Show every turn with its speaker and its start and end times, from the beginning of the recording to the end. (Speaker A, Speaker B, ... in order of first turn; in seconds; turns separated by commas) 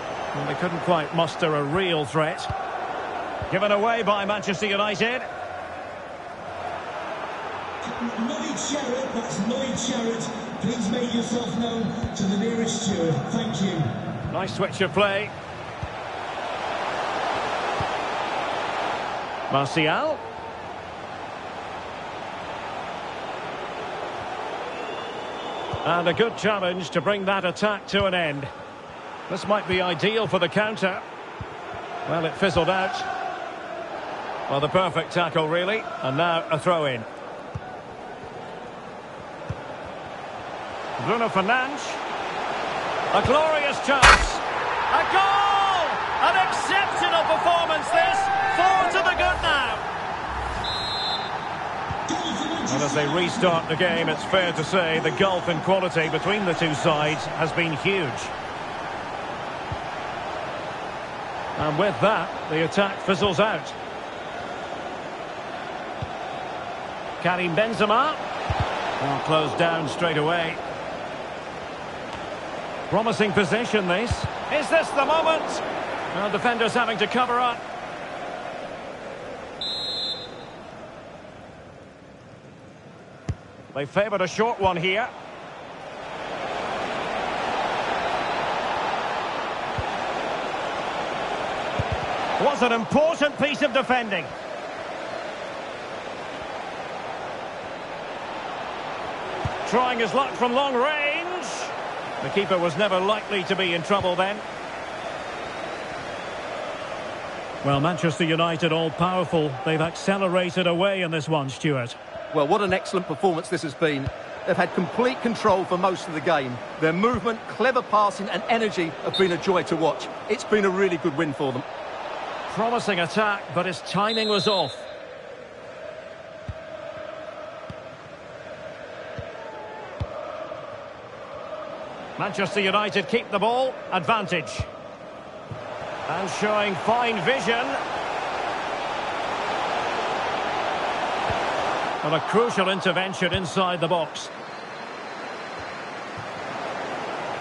Speaker A: 0.3-2.5, Speaker A: 3.5-5.3, Speaker B: 7.8-13.9, Speaker A: 14.3-15.3, Speaker A: 19.5-20.2, Speaker A: 25.8-28.5, Speaker A: 29.3-31.0, Speaker A: 32.1-33.1, Speaker A: 34.5-37.1, Speaker A: 41.0-42.0, Speaker A: 43.1-49.9, Speaker B: 52.1-53.6, Speaker A: 52.7-58.3, Speaker A: 61.6-63.8, Speaker A: 67.2-68.2, Speaker A: 69.0-70.6, Speaker A: 72.9-77.6, Speaker A: 83.7-85.1, Speaker A: 92.4-94.3, Speaker A: 99.7-104.5, Speaker A: 107.6-112.0, Speaker C: 112.3-121.7, Speaker A: 122.5-124.9, Speaker A: 132.2-134.7, Speaker A: 136.1-137.8, Speaker A: 142.0-144.3